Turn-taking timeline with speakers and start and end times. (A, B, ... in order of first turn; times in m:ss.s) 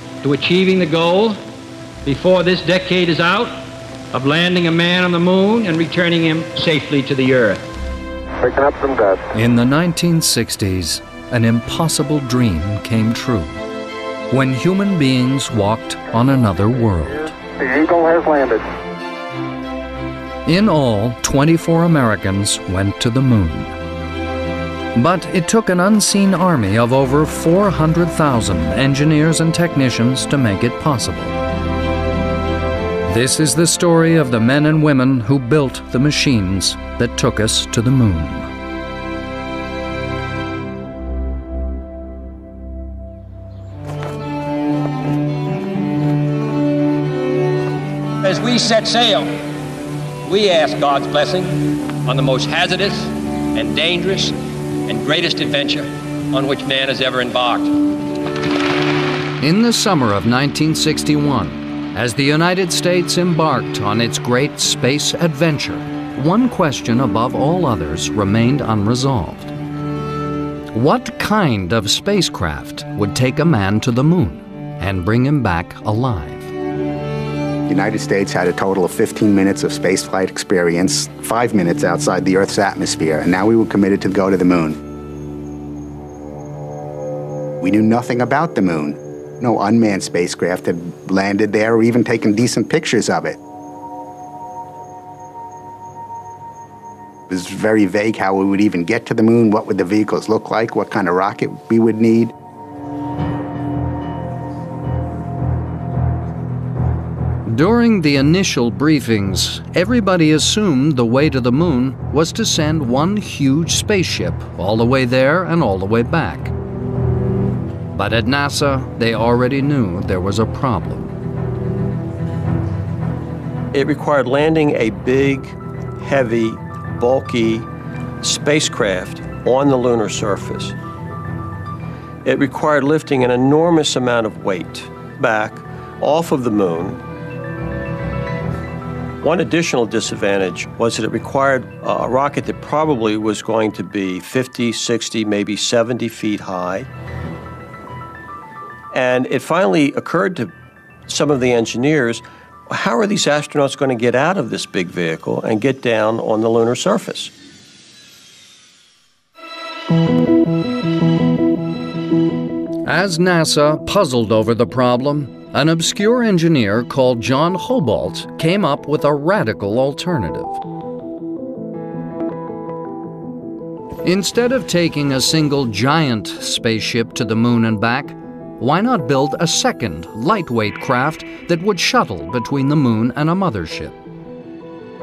0:00.2-0:01.4 A
0:02.0-0:03.6 A
0:04.1-0:07.6 A
0:08.4-0:09.2 B
0:09.3-0:13.6 C
0:14.3-0:17.3 C
0:17.6-0:18.6 B
0:20.4-0:23.7 C
0:24.9-0:31.4 C
0:33.1-0:38.5 C
0:48.2-0:49.5 A
0:50.2-0:57.7 A
0:59.4-1:09.5 C
1:10.7-1:16.5 C
1:17.7-1:24.8 D
1:27.6-1:33.4 D
1:37.3-1:42.3 D
1:47.4-1:56.5 C
1:57.9-2:01.1 C
2:03.7-2:07.7 E
2:08.2-2:10.7 E
2:12.2-2:17.0 E
2:19.2-2:26.9 E
2:28.9-2:30.5 E
2:31.1-2:37.3 E
2:42.8-2:50.6 C
2:54.0-3:04.0 C